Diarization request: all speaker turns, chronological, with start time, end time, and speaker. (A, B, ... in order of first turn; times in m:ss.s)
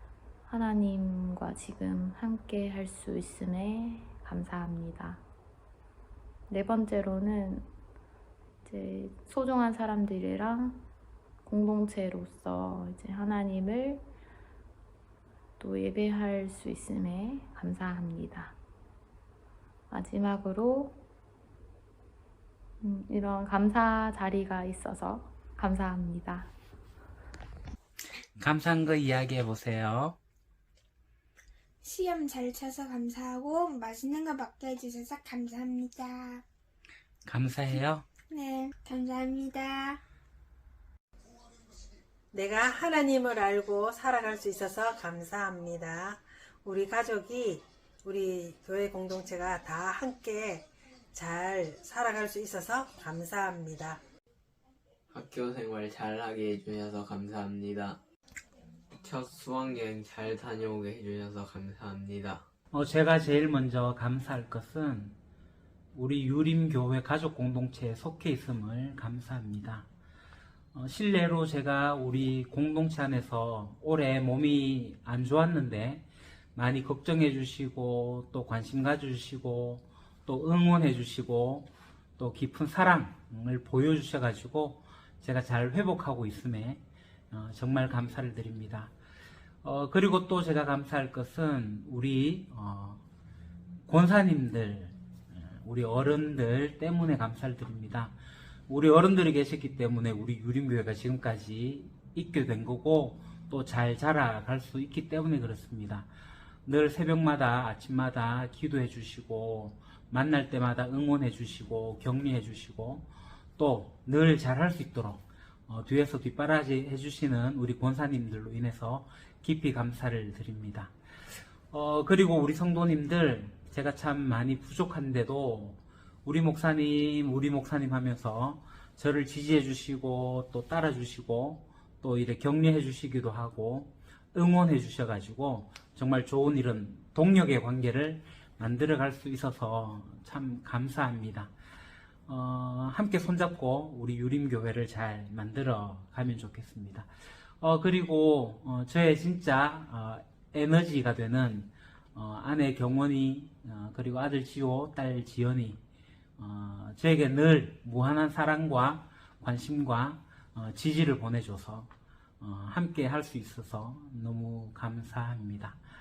0:00.5-0:05.2 A
0:06.5-0:07.7 A
0:08.6-0:10.8 A
0:11.4-0:14.0 A
0:15.6-0:18.5 A
0:19.9-0:21.0 A
0:22.8-0:26.5 A
0:28.4-0:30.2 B
0:31.8-0:36.0 C
0:37.2-0:38.0 B
0:38.3-0:39.6 C
0:42.3-0:54.0 D
0:55.1-0:58.0 E
0:59.0-1:02.4 E
1:02.7-1:05.2 B
1:05.9-1:09.9 B
1:10.7-1:28.9 B
1:29.6-1:33.0 B
1:33.8-1:38.1 B
1:38.7-1:46.1 B
1:46.6-2:00.9 B
2:01.7-2:21.5 B
2:22.3-2:27.1 B
2:27.6-2:35.8 B
2:36.4-2:45.8 B